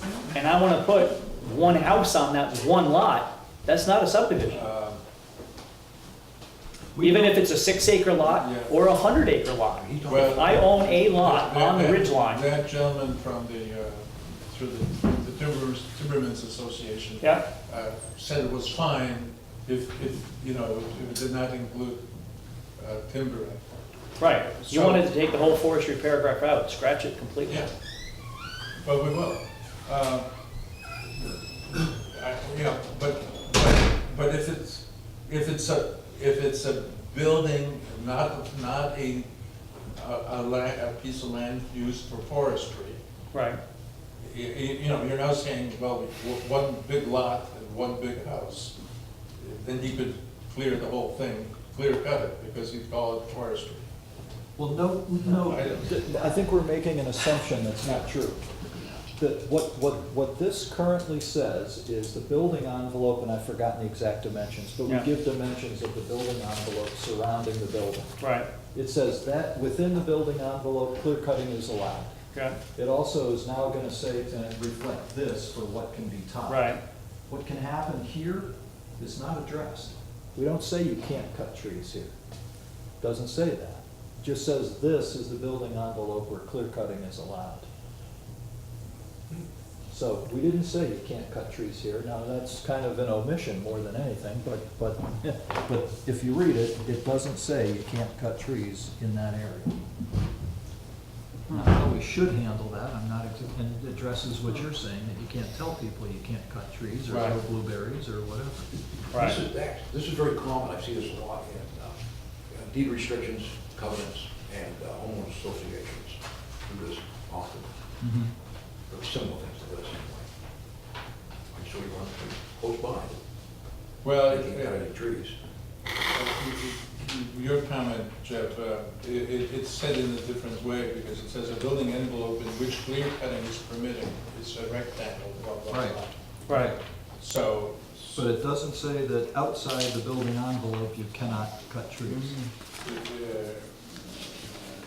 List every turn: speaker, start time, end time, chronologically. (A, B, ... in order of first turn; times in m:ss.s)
0:00.3-0:04.6 A
0:04.5-0:05.0 B
0:07.0-0:07.4 C
0:07.0-0:12.5 A
0:08.3-0:08.8 B
0:09.7-0:10.7 C
0:10.0-0:22.0 B
0:22.8-0:23.6 B
0:24.2-0:27.7 A
0:24.2-0:25.1 B
0:28.8-0:30.3 B
0:31.2-0:39.3 B
0:40.0-0:43.0 B
0:43.3-0:43.6 A
0:44.2-0:48.7 B
0:49.4-0:53.9 B
0:54.6-0:58.5 D
0:55.3-0:56.0 B
0:59.1-1:08.2 D
1:08.2-1:08.5 A
1:08.7-1:12.1 D
1:12.3-1:12.6 A
1:12.8-1:16.8 D
1:16.5-1:16.8 A
1:17.3-1:22.1 D
1:23.0-1:27.7 D
1:29.9-1:39.8 D
1:41.5-1:41.8 A
1:41.5-1:48.7 D
1:47.1-1:47.4 A
1:49.1-1:57.7 C
1:49.1-1:49.4 A
1:58.0-1:58.3 D
1:58.9-2:00.3 C
2:01.5-2:03.2 C
2:04.0-2:05.0 B
2:04.3-2:05.4 C
2:06.1-2:18.3 B
2:15.7-2:16.0 D
2:16.5-2:16.8 A
2:16.5-2:16.8 D
2:18.1-2:22.4 D
2:22.8-2:23.8 B